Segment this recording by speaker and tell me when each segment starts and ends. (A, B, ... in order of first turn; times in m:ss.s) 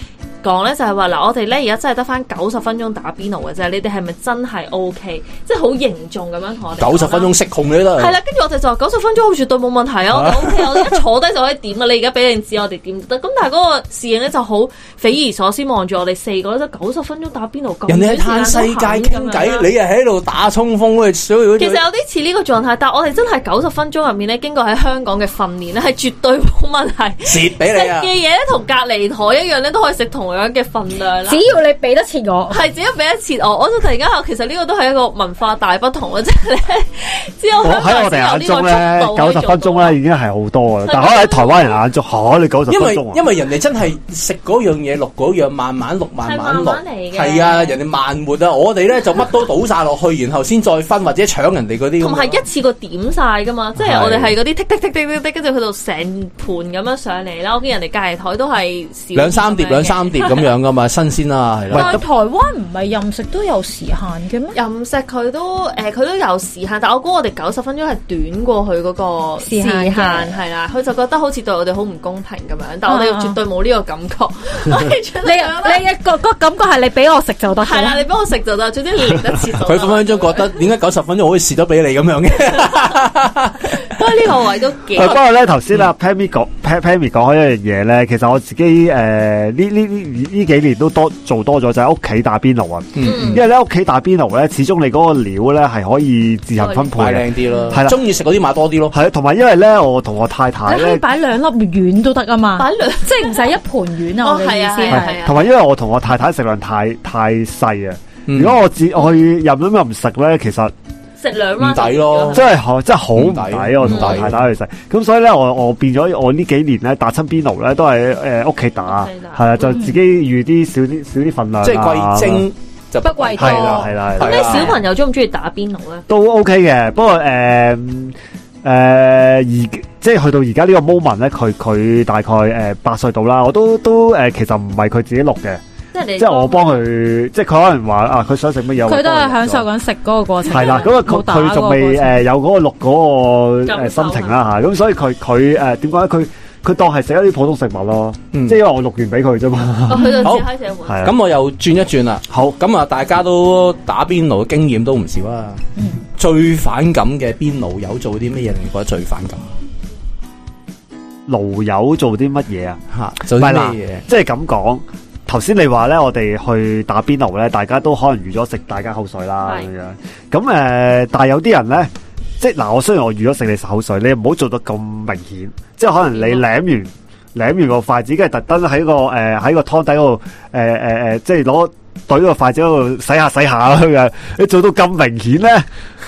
0:00.4-0:07.4 A
0:06.8-0:08.2 B
0:08.0-0:19.7 A
0:10.1-0:11.0 B
0:17.9-0:21.8 B
0:21.6-0:31.4 A
0:27.2-0:28.1 B
0:31.3-0:32.6 C
0:32.5-0:40.0 A
0:37.6-0:43.2 D
0:40.8-0:41.8 A
0:42.7-0:52.4 B
0:46.2-0:47.8 A
0:52.0-1:00.5 A
0:53.8-0:54.4 B
0:59.2-1:02.0 B
1:01.7-1:02.0 D
1:01.7-1:04.6 C
1:04.5-1:15.8 A
1:09.4-1:10.4 C
1:12.9-1:13.4 C
1:15.2-1:18.0 C
1:17.6-1:20.7 A
1:19.6-1:24.0 B
1:23.9-1:25.2 A
1:24.9-1:38.0 D
1:33.0-1:33.4 B
1:33.0-1:33.4 A
1:36.6-1:36.9 A
1:37.0-1:39.0 B
1:37.5-1:37.8 A
1:38.9-1:41.0 D
1:40.7-1:45.2 C
1:42.6-1:43.5 A
1:44.2-1:45.5 A
1:44.9-1:50.7 D
1:48.3-1:48.6 B
1:51.2-1:52.5 A
1:51.6-1:52.5 B
1:52.3-2:02.5 D
1:53.2-1:54.4 B
1:53.8-1:54.3 A
1:58.8-1:59.8 A
1:59.7-2:00.0 C
2:01.6-2:04.8 B
2:03.0-2:03.9 C
2:03.4-2:04.8 D
2:04.2-2:06.1 A
2:06.1-2:15.6 D
2:15.9-2:16.8 A
2:16.2-2:19.7 D
2:18.8-2:22.2 C
2:20.5-2:30.2 D
2:20.5-2:20.8 A
2:23.7-2:24.4 A
2:28.3-2:28.6 B
2:29.9-2:31.1 A
2:30.0-2:30.3 C
2:30.9-2:31.1 D
2:31.0-2:39.4 B
2:32.3-2:32.6 D
2:41.3-2:42.8 D
2:42.9-2:44.0 B
2:43.3-3:05.7 D
2:49.4-2:49.7 A
2:56.2-2:56.4 A